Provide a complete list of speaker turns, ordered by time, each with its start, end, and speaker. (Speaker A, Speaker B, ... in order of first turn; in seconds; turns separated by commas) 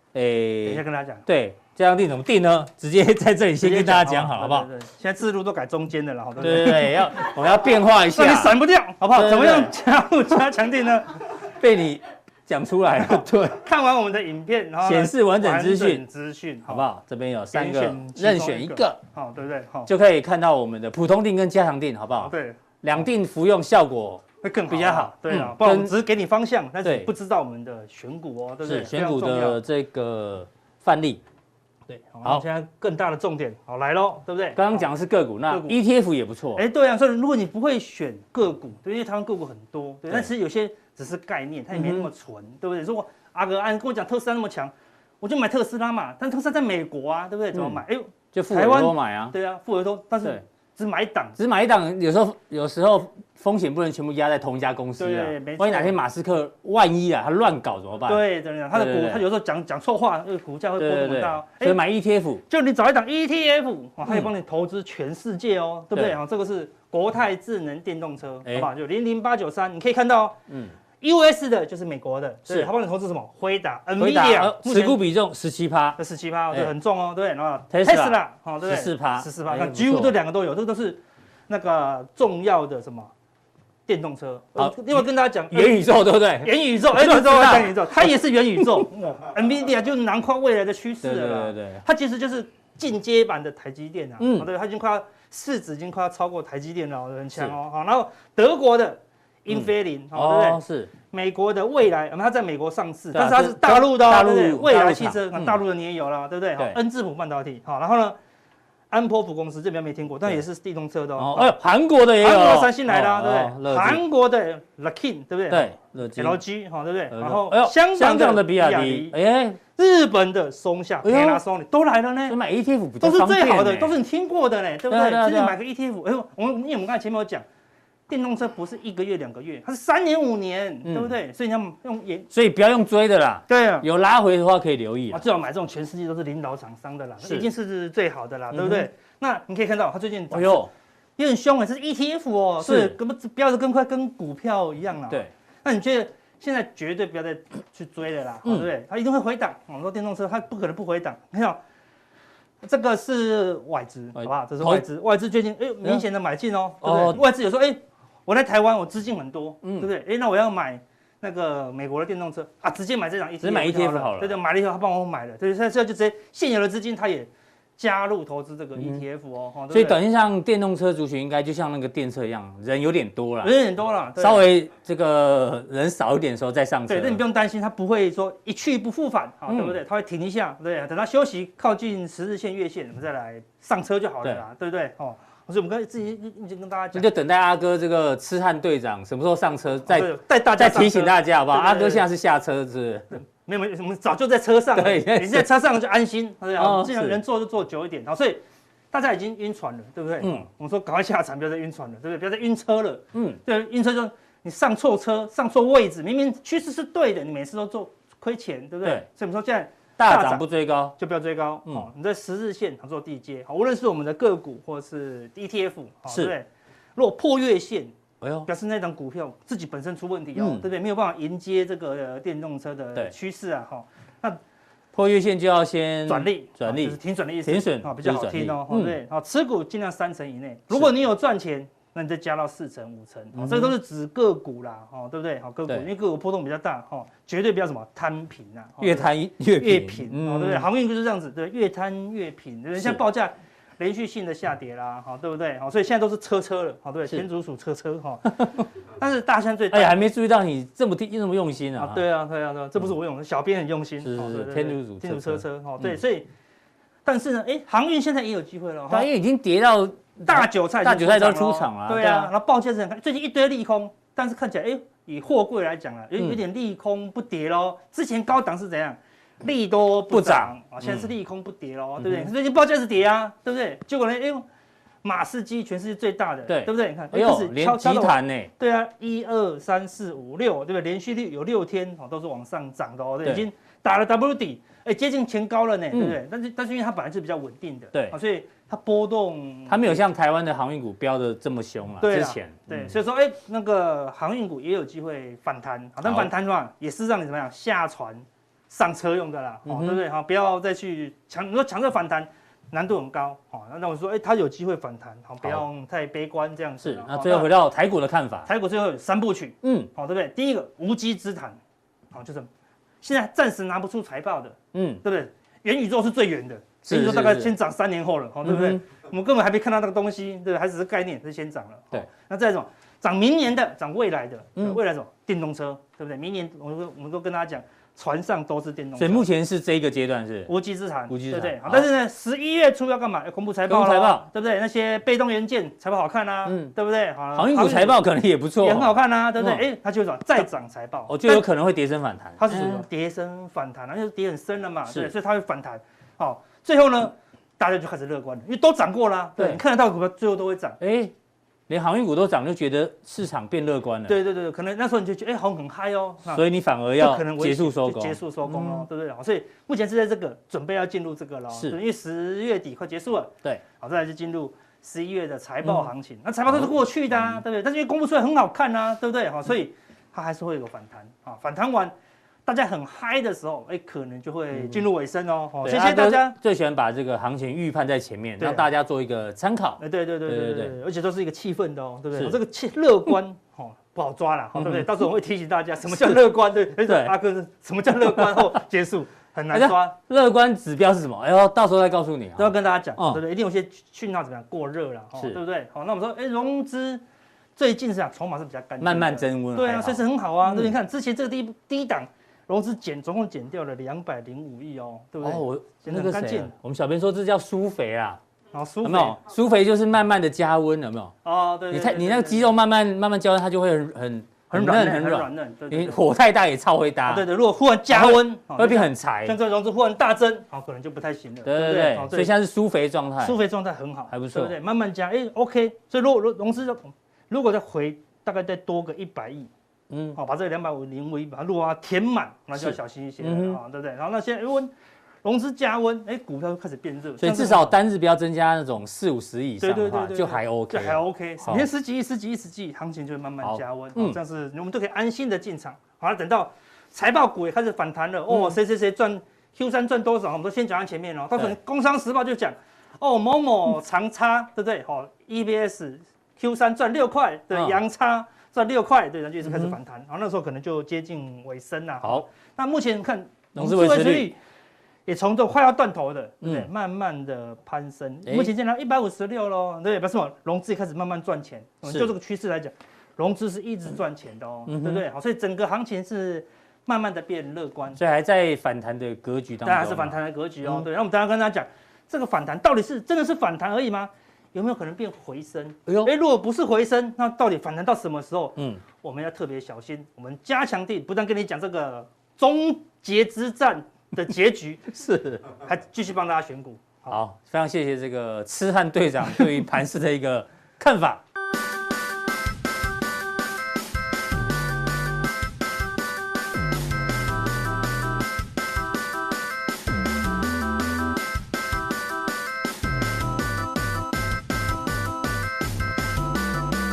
Speaker A: 0.1-4.7, Speaker B: 0.6-1.2, Speaker B: 3.6-11.2, Speaker A: 6.4-8.6, Speaker A: 9.1-9.7, Speaker A: 11.5-13.6, Speaker B: 13.1-16.9, Speaker A: 14.8-16.0, Speaker A: 16.7-19.0, Speaker B: 17.5-19.9, Speaker A: 19.9-25.9, Speaker B: 22.2-22.6, Speaker B: 24.4-29.6, Speaker A: 26.8-27.1, Speaker A: 28.6-31.2, Speaker B: 32.1-34.9, Speaker A: 34.5-36.6, Speaker B: 35.5-35.8, Speaker B: 36.5-51.4, Speaker A: 41.7-42.1, Speaker A: 47.5-47.8, Speaker A: 48.3-49.4, Speaker A: 51.4-59.2, Speaker B: 55.0-55.9, Speaker B: 58.1-61.8, Speaker A: 60.8-62.4, Speaker B: 62.5-70.4, Speaker A: 70.5-70.8, Speaker B: 71.0-75.0, Speaker A: 74.0-76.0, Speaker B: 76.0-83.1, Speaker A: 77.7-80.2, Speaker B: 83.9-85.9, Speaker A: 84.6-88.9, Speaker B: 86.4-108.2, Speaker A: 91.0-91.8, Speaker A: 94.2-94.5, Speaker A: 99.5-100.9, Speaker A: 103.1-105.6, Speaker B: 108.9-111.6, Speaker A: 111.2-114.0, Speaker B: 112.2-119.2, Speaker A: 115.5-116.4, Speaker A: 117.1-119.6, Speaker B: 119.8-122.4, Speaker A: 121.0-121.4, Speaker A: 122.3-124.0, Speaker B: 123.0-127.5, Speaker A: 124.9-125.6, Speaker B: 128.1-132.3, Speaker A: 130.8-131.1, Speaker A: 132.3-135.2, Speaker B: 133.5-133.9, Speaker B: 135.1-151.6, Speaker A: 137.2-137.5, Speaker A: 138.5-138.9, Speaker A: 140.3-140.7, Speaker A: 142.6-143.0, Speaker B: 152.6-170.0, Speaker A: 154.2-154.8, Speaker A: 156.8-157.2, Speaker A: 159.6-159.9, Speaker A: 163.4-164.4, Speaker A: 168.8-169.0, Speaker A: 169.7-173.6, Speaker B: 173.4-174.4, Speaker A: 174.2-177.2, Speaker B: 176.9-187.1, Speaker A: 179.5-179.8, Speaker A: 186.9-193.1, Speaker B: 189.9-192.1, Speaker B: 193.4-198.4, Speaker A: 194.8-195.5, Speaker A: 196.6-197.2, Speaker B: 198.9-210.4, Speaker A: 200.2-200.5, Speaker A: 203.1-203.4, Speaker A: 210.0-210.9, Speaker B: 211.0-224.4, Speaker A: 216.1-216.3, Speaker A: 218.2-218.5, Speaker A: 220.4-220.7, Speaker A: 224.9-229.0, Speaker B: 226.1-250.0, Speaker A: 233.3-233.7, Speaker A: 238.8-240.7, Speaker A: 249.7-252.0, Speaker B: 251.8-256.3, Speaker A: 254.0-255.4, Speaker B: 257.1-259.1, Speaker A: 258.9-262.3, Speaker B: 260.3-274.4, Speaker A: 270.1-271.1, Speaker A: 272.0-272.3, Speaker B: 275.0-290.0, Speaker A: 276.5-278.5, Speaker A: 285.9-286.2, Speaker A: 289.7-292.9, Speaker B: 292.0-307.5, Speaker A: 296.0-296.3, Speaker A: 299.7-300.0, Speaker A: 306.8-308.5, Speaker B: 308.5-311.6, Speaker A: 309.6-309.9, Speaker B: 312.1-312.5, Speaker B: 313.0-329.3, Speaker A: 314.7-315.0, Speaker A: 316.9-317.5, Speaker A: 318.4-318.8, Speaker A: 329.0-330.5, Speaker B: 330.5-338.0, Speaker A: 331.1-331.9, Speaker A: 333.7-334.2, Speaker A: 336.5-336.7, Speaker A: 337.4-339.6, Speaker B: 338.6-341.5, Speaker A: 341.1-342.9, Speaker B: 342.4-350.8, Speaker A: 350.8-351.1, Speaker A: 351.7-354.2, Speaker B: 354.1-356.4, Speaker A: 356.3-358.9, Speaker B: 357.0-371.9, Speaker A: 361.5-361.8, Speaker A: 365.6-365.9, Speaker A: 366.5-367.4, Speaker B: 372.5-376.4, Speaker A: 374.6-374.8, Speaker A: 375.6-380.8, Speaker B: 378.4-378.7, Speaker B: 379.8-390.0, Speaker A: 384.6-384.9, Speaker A: 385.9-386.2, Speaker A: 386.9-387.1, Speaker A: 388.0-388.6, Speaker A: 389.5-393.2, Speaker B: 392.4-397.0, Speaker B: 397.6-406.5, Speaker A: 398.8-400.7, Speaker A: 405.2-408.2, Speaker B: 408.5-409.2, Speaker A: 408.8-411.1, Speaker B: 411.2-412.5, Speaker A: 411.7-417.3, Speaker B: 414.5-416.0, Speaker B: 417.1-422.3, Speaker A: 417.9-419.4, Speaker A: 421.4-423.4, Speaker B: 423.2-429.5, Speaker A: 424.1-424.5, Speaker A: 429.9-430.2, Speaker B: 430.1-434.7, Speaker A: 432.6-433.6, Speaker B: 435.2-437.7, Speaker A: 437.2-441.7, Speaker B: 439.6-464.4, Speaker A: 443.4-444.2, Speaker A: 448.3-448.6, Speaker A: 457.5-457.8, Speaker A: 459.4-459.8, Speaker A: 463.6-464.3, Speaker B: 465.1-478.0, Speaker A: 466.4-466.7, Speaker A: 468.3-468.5, Speaker A: 471.9-472.1, Speaker A: 474.7-475.0, Speaker A: 478.0-480.9, Speaker B: 479.6-494.9, Speaker A: 485.9-486.1, Speaker A: 488.6-488.8, Speaker A: 494.9-495.4, Speaker B: 495.5-497.2, Speaker A: 497.1-501.2